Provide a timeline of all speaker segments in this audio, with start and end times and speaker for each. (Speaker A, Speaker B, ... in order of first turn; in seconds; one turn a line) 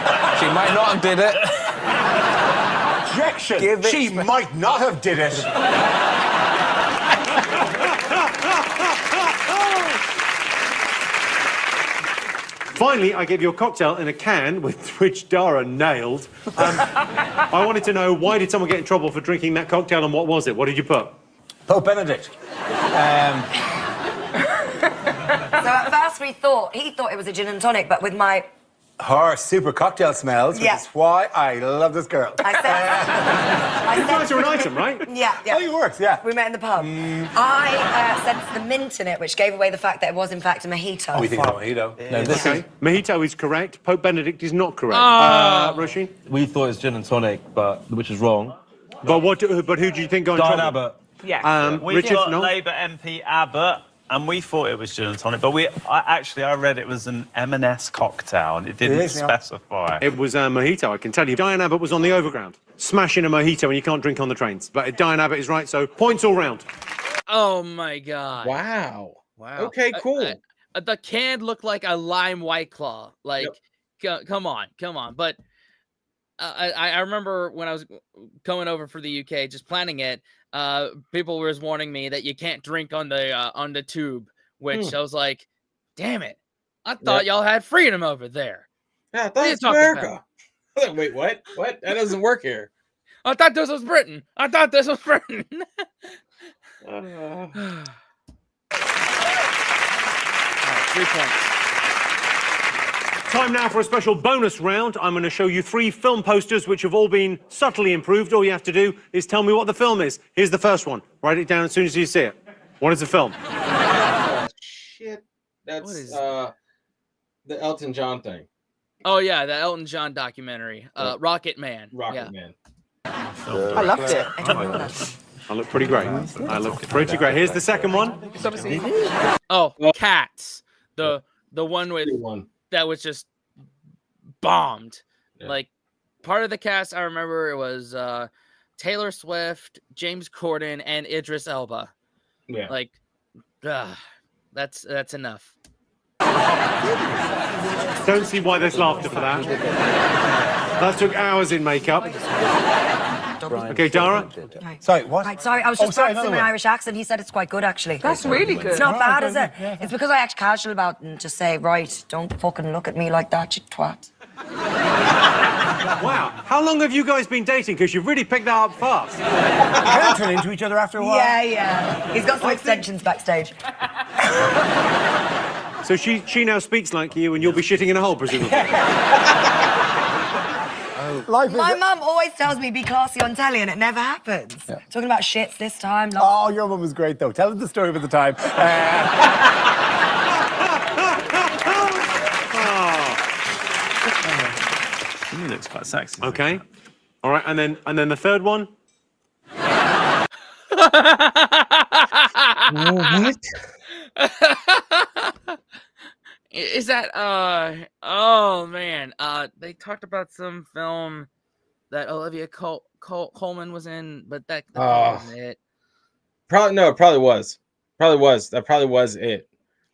Speaker A: 0.2-1.4
Speaker B: 3.4-5.5
Speaker C: 3.6-3.9
Speaker C: 12.7-16.9
Speaker C: 17.5-21.2
Speaker B: 21.7-22.3
Speaker B: 22.9-23.5
Speaker D: 25.6-28.5
Speaker B: 29.0-33.5
Speaker D: 30.5-30.8
Speaker D: 32.4-35.6
Speaker C: 33.9-35.0
Speaker B: 35.4-36.2
Speaker D: 36.2-41.5
Speaker B: 36.8-37.3
Speaker B: 41.1-42.6
Speaker E: 42.0-42.5
Speaker C: 42.2-46.1
Speaker D: 42.3-42.6
Speaker F: 44.9-45.8
Speaker E: 46.2-48.5
Speaker C: 49.0-50.8
Speaker E: 50.3-51.0
Speaker G: 51.2-51.5
Speaker C: 51.4-52.5
Speaker H: 51.7-60.0
Speaker B: 58.8-59.4
Speaker C: 60.0-66.7
Speaker F: 67.3-68.6
Speaker I: 68.4-70.4
Speaker F: 69.4-75.4
Speaker F: 76.4-85.5
Speaker F: 86.0-88.7
Speaker I: 89.1-90.2
Speaker F: 89.4-90.1
Speaker I: 90.8-92.7
Speaker F: 93.2-95.8
Speaker E: 96.8-97.5
Speaker F: 97.5-97.9
Speaker F: 100.6-101.5
Speaker C: 103.3-113.4
Speaker I: 114.2-116.5
Speaker F: 115.8-116.3
Speaker I: 117.5-118.5
Speaker F: 119.0-122.3
Speaker I: 121.9-122.5
Speaker H: 123.5-124.6
Speaker E: 123.5-124.8
Speaker G: 123.8-124.3
Speaker D: 124.0-125.1
Speaker C: 125.5-128.2
Speaker E: 126.9-127.5
Speaker G: 128.3-129.1
Speaker F: 129.5-132.2
Speaker I: 132.0-132.5
Speaker F: 132.7-133.3
Speaker F: 134.4-135.7
Speaker F: 136.2-141.9
Speaker I: 142.5-142.7
Speaker F: 142.7-143.0
Speaker F: 143.6-144.0
Speaker F: 144.5-145.5
Speaker C: 148.0-149.5
Speaker A: 148.7-149.4
Speaker C: 150.8-152.2
Speaker A: 153.5-154.5
Speaker C: 153.7-154.3
Speaker D: 154.6-164.1
Speaker B: 154.8-156.5
Speaker G: 158.0-159.0
Speaker E: 158.3-158.6
Speaker B: 158.4-159.9
Speaker C: 166.0-169.2
Speaker B: 169.8-171.4
Speaker D: 171.0-173.6
Speaker B: 172.4-172.8
Speaker C: 175.8-178.8
Speaker B: 181.2-181.8
Speaker D: 181.5-186.3
Speaker B: 186.2-189.3
Speaker C: 191.0-191.9
Speaker C: 192.5-193.2
Speaker H: 195.6-196.0
Speaker C: 196.2-196.6
Speaker C: 197.2-198.7
Speaker F: 200.7-203.3
Speaker I: 202.7-203.5
Speaker F: 204.2-205.5
Speaker F: 206.5-211.3
Speaker F: 211.9-215.6
Speaker I: 214.8-215.3
Speaker I: 216.5-219.5